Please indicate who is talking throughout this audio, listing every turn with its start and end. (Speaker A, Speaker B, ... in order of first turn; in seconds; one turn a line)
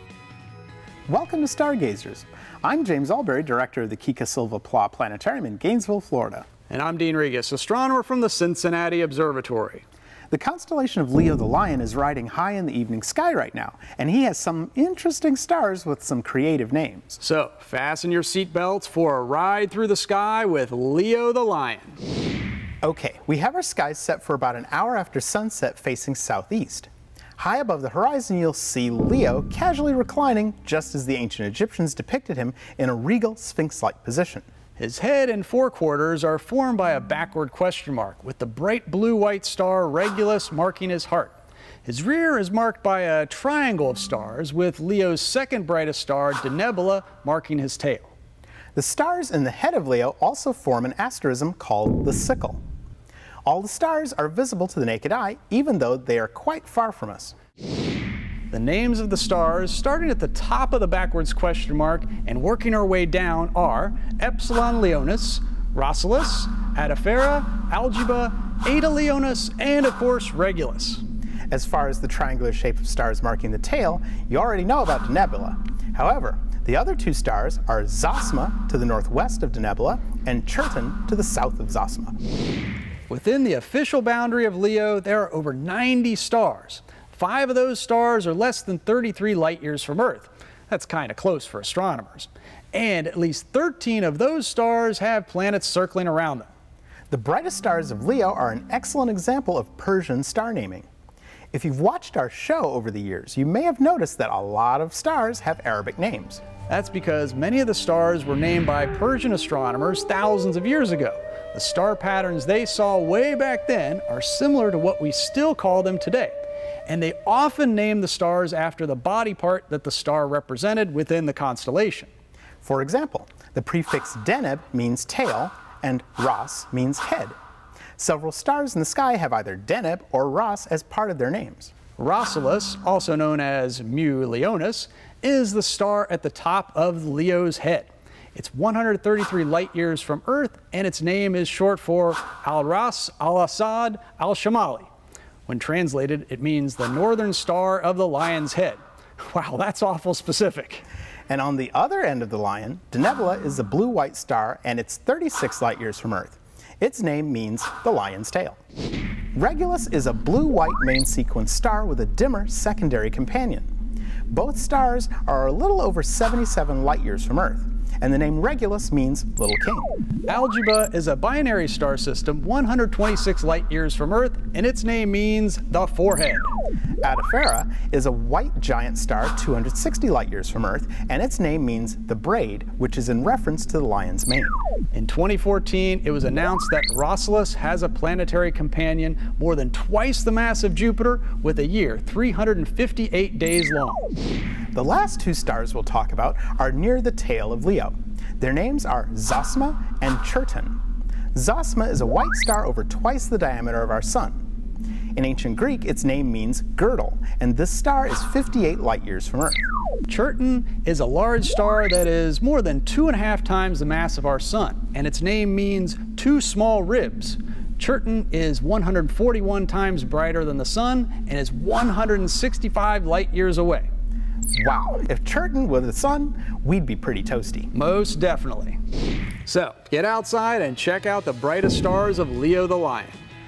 Speaker A: 1.1-6.5
Speaker B: 6.7-9.8
Speaker A: 10.3-17.2
Speaker B: 17.2-22.0
Speaker A: 22.8-34.4
Speaker B: 34.8-48.1
Speaker A: 48.7-52.6
Speaker A: 53.5-57.3
Speaker B: 58.5-71.0
Speaker A: 71.5-82.1
Speaker B: 83.1-96.5
Speaker A: 97.1-100.9
Speaker A: 101.5-106.4
Speaker B: 106.7-116.3
Speaker B: 116.9-122.1
Speaker A: 122.6-127.4
Speaker A: 128.0-131.7
Speaker B: 132.0-144.9
Speaker B: 145.5-150.8
Speaker A: 151.3-158.6
Speaker A: 159.3-163.7
Speaker A: 164.3-169.9
Speaker B: 170.3-176.5
Speaker A: 177.0-184.6
Speaker B: 184.9-194.1
Speaker A: 194.7-200.8
Speaker A: 201.3-204.4
Speaker A: 205.2-209.6
Speaker B: 210.1-223.9
Speaker A: 224.5-227.7
Speaker B: 227.7-228.8
Speaker B: 229.4-233.2